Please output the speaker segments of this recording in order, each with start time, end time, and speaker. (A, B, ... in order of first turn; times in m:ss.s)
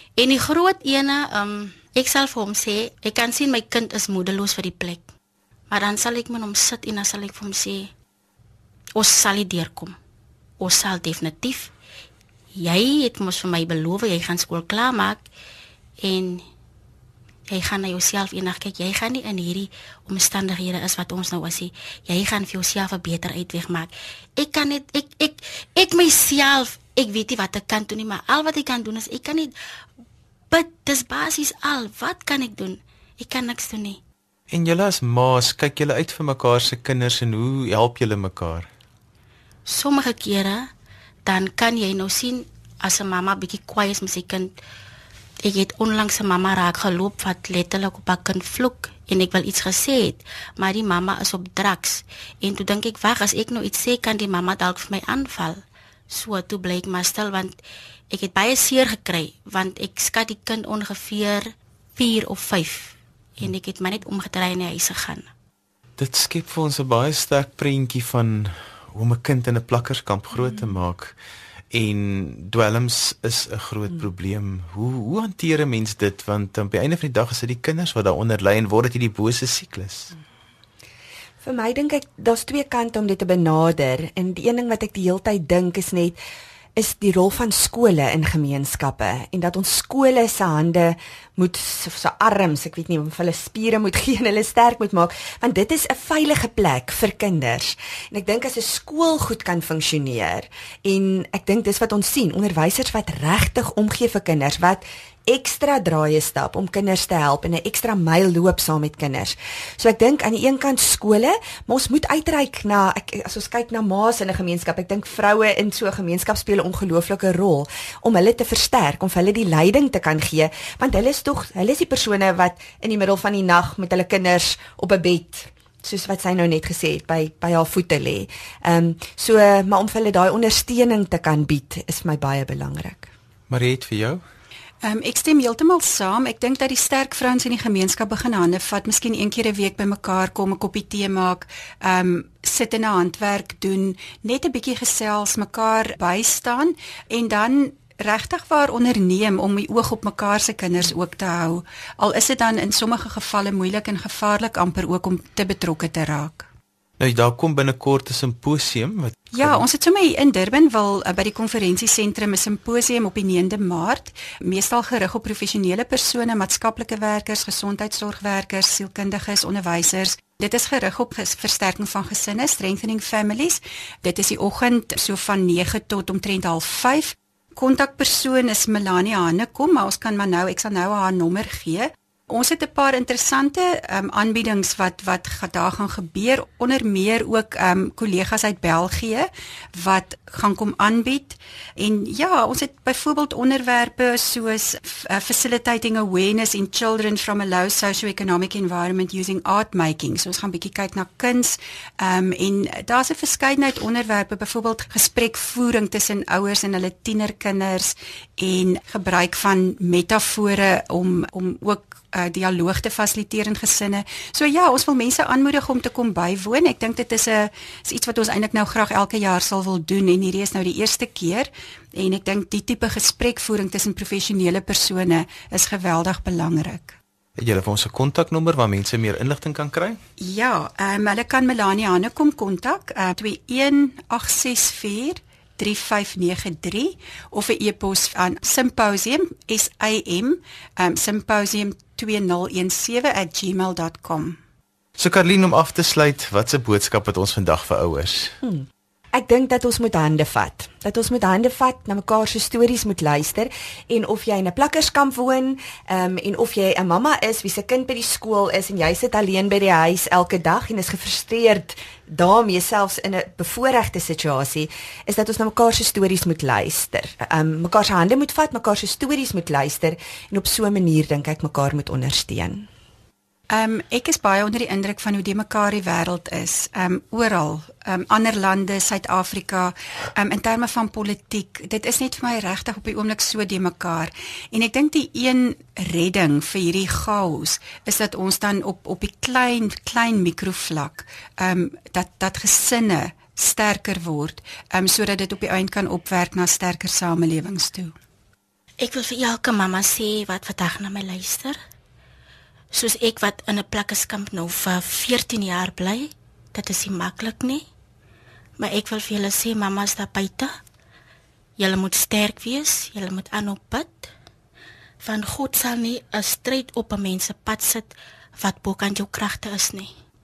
0:00.2-0:05.1 A
0:05.7-0:07.9 A
0:09.0-0:10.0 A
0:10.6-0:11.7 A
0:12.6-0:15.2 A
0:16.0-0:16.4 A
0:17.5-0:29.5 A
0:30.5-0:34.0 A
0:34.5-0:38.7 B
0:39.7-0:40.7 A
0:41.3-0:44.5 A
0:45.4-0:57.6 A
0:58.1-1:05.3 A
1:06.0-1:11.2 B
1:11.7-1:20.1 B
1:21.4-1:26.2 C
1:26.8-2:13.1 C
2:13.5-2:14.2 B
2:14.8-2:36.5 D
2:37.0-2:39.6 B
2:39.3-3:47.0 D
3:47.4-3:50.0 B
3:50.2-4:04.4 D
4:05.0-4:08.4 B
4:08.4-4:32.7 C
4:33.5-4:58.0 D
4:58.8-5:01.6 A
5:02.7-5:07.6 A
5:08.6-5:10.5 A
5:11.6-5:14.1 A
5:15.0-5:19.9 A